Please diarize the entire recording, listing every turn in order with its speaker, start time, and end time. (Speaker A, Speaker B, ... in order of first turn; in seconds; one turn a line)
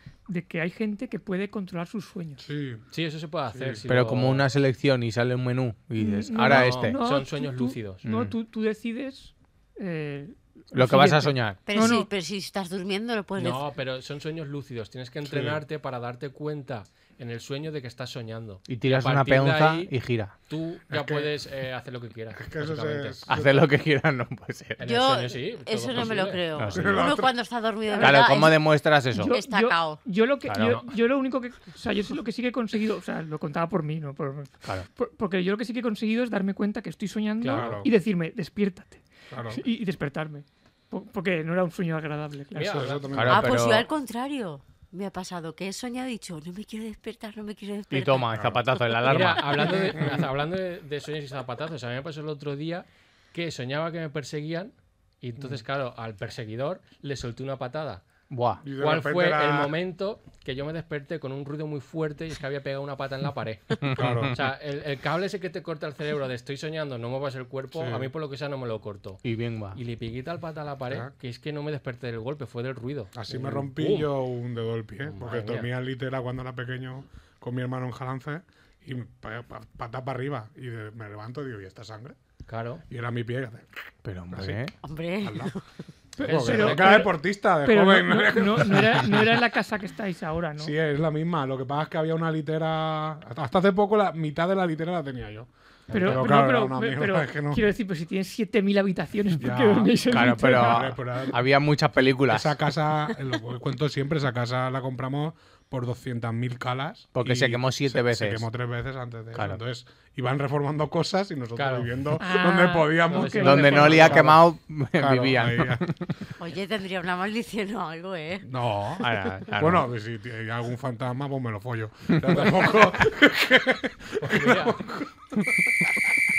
Speaker A: 0.3-2.4
Speaker B: 2.4-2.8
Speaker C: 2.9-4.5
Speaker B: 3.5-3.8
Speaker D: 3.9-7.0
Speaker A: 6.0-12.1
Speaker C: 6.5-8.1
Speaker D: 8.0-8.3
Speaker D: 10.7-11.9
Speaker E: 11.7-13.6
Speaker C: 13.4-19.9
Speaker B: 15.2-15.6
Speaker D: 18.7-20.3
Speaker C: 20.5-23.4
Speaker B: 20.9-21.3
Speaker B: 22.3-23.7
Speaker D: 23.3-24.8
Speaker C: 24.8-26.4
Speaker E: 24.8-30.0
Speaker D: 26.6-27.2
Speaker B: 26.7-27.4
Speaker A: 27.9-28.6
Speaker D: 28.0-29.4
Speaker A: 29.1-42.8
Speaker D: 30.5-30.8
Speaker C: 30.6-30.9
Speaker C: 37.4-37.8
Speaker B: 37.5-37.9
Speaker B: 39.3-39.6
Speaker C: 42.5-43.0
Speaker B: 42.6-43.7
Speaker D: 43.1-43.9
Speaker E: 43.3-48.4
Speaker D: 47.9-49.8
Speaker B: 48.3-48.6
Speaker C: 49.1-58.0
Speaker D: 58.3-58.6
Speaker B: 58.6-59.8
Speaker C: 58.8-69.2
Speaker D: 63.8-64.4
Speaker B: 64.0-64.3
Speaker B: 67.7-68.1
Speaker D: 69.2-69.8
Speaker C: 69.7-74.1
Speaker B: 73.1-82.2
Speaker C: 75.1-75.7
Speaker C: 82.5-82.8
Speaker B: 82.9-83.7
Speaker D: 84.0-84.7
Speaker B: 84.3-85.5
Speaker E: 84.8-85.6
Speaker A: 86.2-90.7
Speaker B: 86.2-89.3
Speaker C: 86.2-87.1
Speaker B: 90.6-97.6
Speaker C: 95.9-96.2
Speaker A: 95.9-100.9
Speaker B: 99.4-101.5
Speaker D: 100.1-102.6
Speaker B: 102.3-114.4
Speaker D: 107.2-108.5
Speaker D: 109.3-109.6
Speaker C: 111.6-111.9
Speaker A: 112.2-114.2
Speaker C: 113.1-114.4
Speaker D: 113.4-116.2
Speaker B: 115.0-115.9
Speaker E: 116.4-118.5
Speaker B: 118.5-126.1
Speaker D: 119.0-119.9
Speaker C: 124.2-124.8